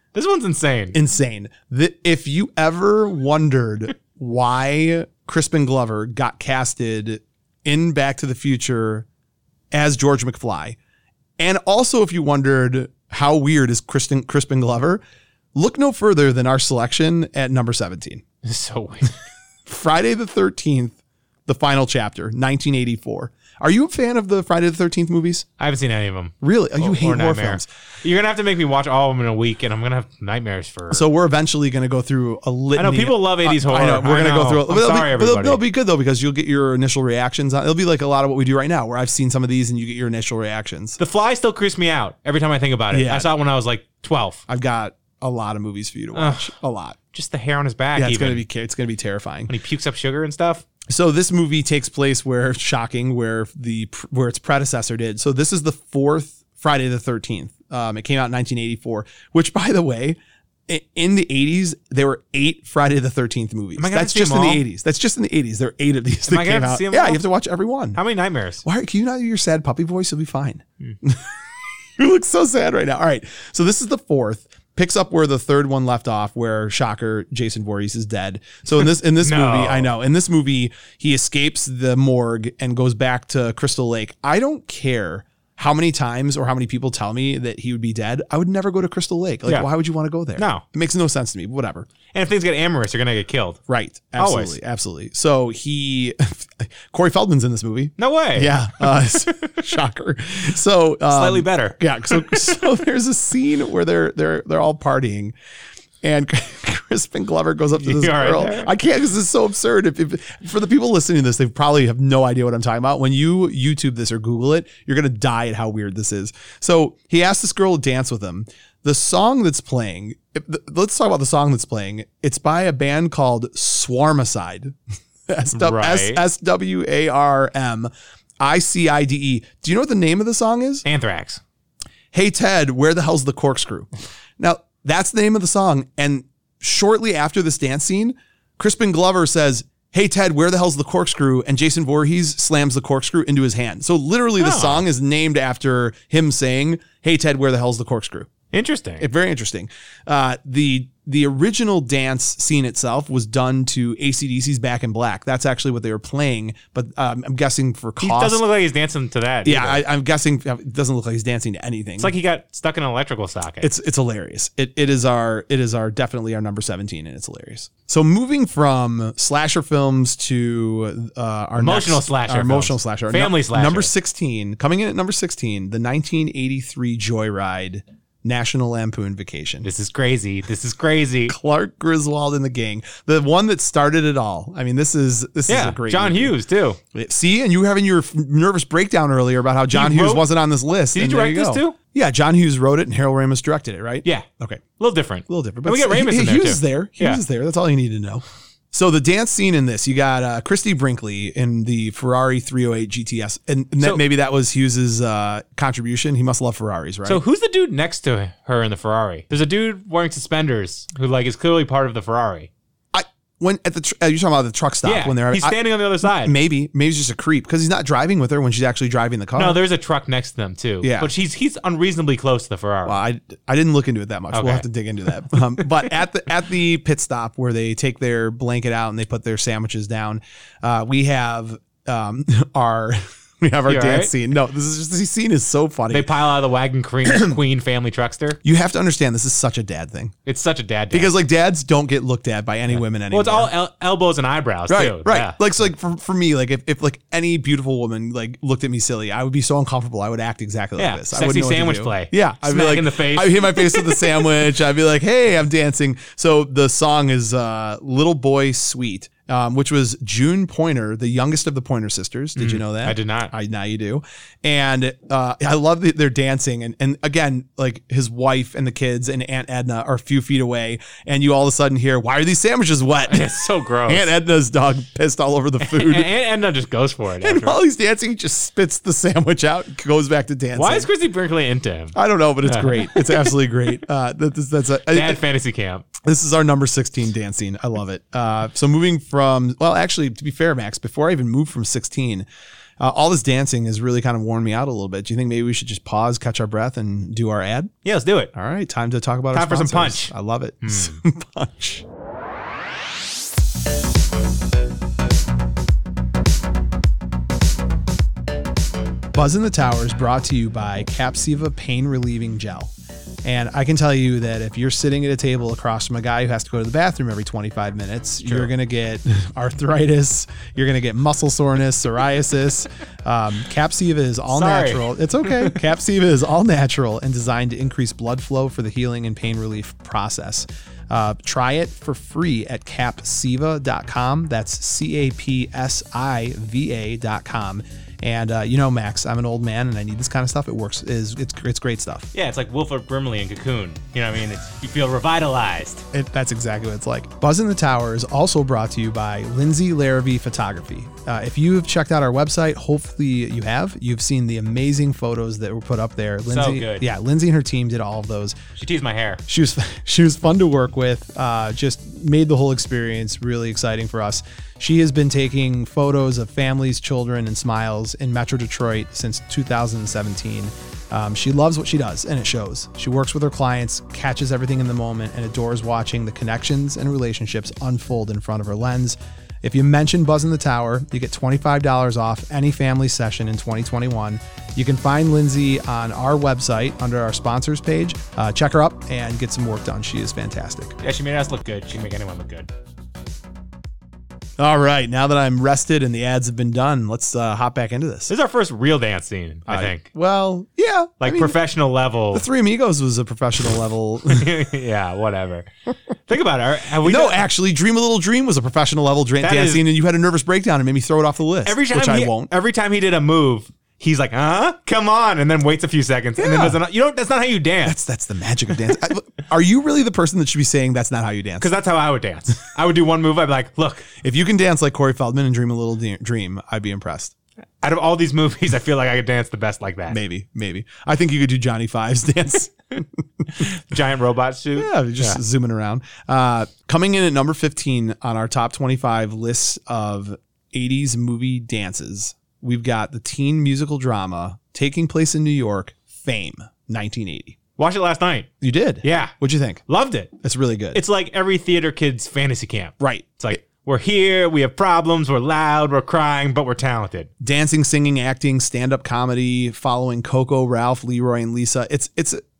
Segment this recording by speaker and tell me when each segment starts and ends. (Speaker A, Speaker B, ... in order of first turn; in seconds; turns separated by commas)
Speaker A: 0.1-1.0, Speaker B: 0.9-9.1, Speaker B: 9.7-10.8, Speaker B: 11.4-15.0, Speaker B: 15.6-18.2, Speaker A: 18.4-19.1, Speaker B: 19.7-25.5, Speaker A: 25.6-31.0, Speaker B: 26.4-27.7, Speaker B: 30.9-41.0, Speaker A: 32.8-35.6, Speaker A: 41.0-44.4, Speaker B: 42.9-43.3, Speaker B: 44.5-47.0, Speaker A: 46.1-46.5, Speaker A: 47.1-48.5, Speaker B: 48.0-49.5, Speaker A: 49.5-50.6, Speaker B: 50.9-68.0, Speaker A: 63.8-64.6, Speaker A: 66.3-67.2, Speaker A: 68.0-68.6, Speaker B: 68.6-71.2, Speaker B: 72.0-91.9, Speaker A: 79.2-79.9, Speaker A: 90.4-90.6, Speaker A: 92.1-93.6, Speaker B: 93.7-105.3, Speaker A: 94.2-94.6, Speaker A: 98.0-99.5, Speaker A: 101.1-102.7, Speaker B: 106.0-124.8, Speaker A: 107.8-108.7, Speaker B: 125.3-130.9, Speaker A: 125.5-126.2, Speaker A: 130.8-131.4, Speaker B: 132.1-133.9, Speaker B: 134.4-148.3, Speaker A: 144.4-144.9, Speaker A: 148.5-149.1, Speaker B: 149.0-158.4, Speaker A: 158.0-159.8, Speaker B: 159.4-162.1, Speaker A: 162.0-163.7, Speaker B: 163.6-179.7, Speaker A: 171.6-173.9, Speaker A: 179.6-181.3, Speaker B: 181.3-186.3, Speaker A: 185.5-186.8, Speaker B: 186.9-194.6, Speaker A: 189.7-190.3, Speaker A: 190.9-191.8, Speaker A: 194.8-197.2, Speaker B: 195.3-207.2, Speaker A: 207.1-212.5, Speaker B: 212.9-219.6, Speaker A: 214.8-216.3, Speaker A: 219.3-223.0, Speaker B: 220.8-221.1, Speaker B: 222.9-236.1, Speaker A: 224.3-224.7, Speaker A: 233.7-234.1, Speaker A: 235.9-238.4, Speaker B: 237.1-237.3, Speaker B: 238.4-240.1, Speaker A: 240.3-241.1, Speaker B: 240.9-243.5, Speaker A: 242.7-245.4, Speaker B: 244.7-273.3, Speaker A: 250.8-254.3, Speaker A: 262.4-263.3, Speaker A: 273.1-274.1, Speaker B: 273.9-276.1, Speaker A: 275.6-277.6, Speaker B: 277.2-280.9, Speaker A: 280.6-283.3, Speaker B: 281.9-285.2, Speaker A: 284.9-285.9, Speaker B: 286.0-292.2, Speaker B: 292.8-297.7, Speaker A: 297.9-298.3, Speaker B: 298.3-301.9, Speaker A: 299.3-300.1, Speaker A: 300.6-301.0, Speaker B: 309.1-312.7, Speaker B: 313.2-342.1, Speaker A: 318.2-318.5, Speaker A: 324.3-325.6, Speaker A: 342.1-345.9, Speaker B: 345.9-358.4, Speaker A: 356.3-356.9, Speaker A: 358.6-359.2, Speaker B: 359.3-390.8, Speaker A: 390.8-392.5, Speaker B: 394.4-398.1, Speaker A: 398.1-399.9, Speaker B: 399.5-401.4, Speaker A: 401.0-402.3, Speaker B: 402.1-404.3, Speaker A: 404.1-405.5, Speaker A: 406.1-407.2, Speaker B: 406.8-412.3, Speaker A: 409.2-409.6, Speaker A: 411.4-417.8, Speaker B: 416.2-416.6, Speaker B: 417.6-421.5, Speaker A: 421.4-423.9, Speaker B: 424.0-427.1, Speaker A: 427.6-430.0, Speaker B: 429.9-433.5, Speaker A: 433.4-435.2, Speaker B: 434.6-447.4, Speaker A: 447.6-448.3, Speaker B: 448.4-449.6, Speaker A: 448.8-449.1, Speaker A: 449.7-450.1, Speaker B: 450.2-450.8, Speaker A: 450.7-457.1, Speaker B: 452.8-453.4, Speaker B: 457.2-462.2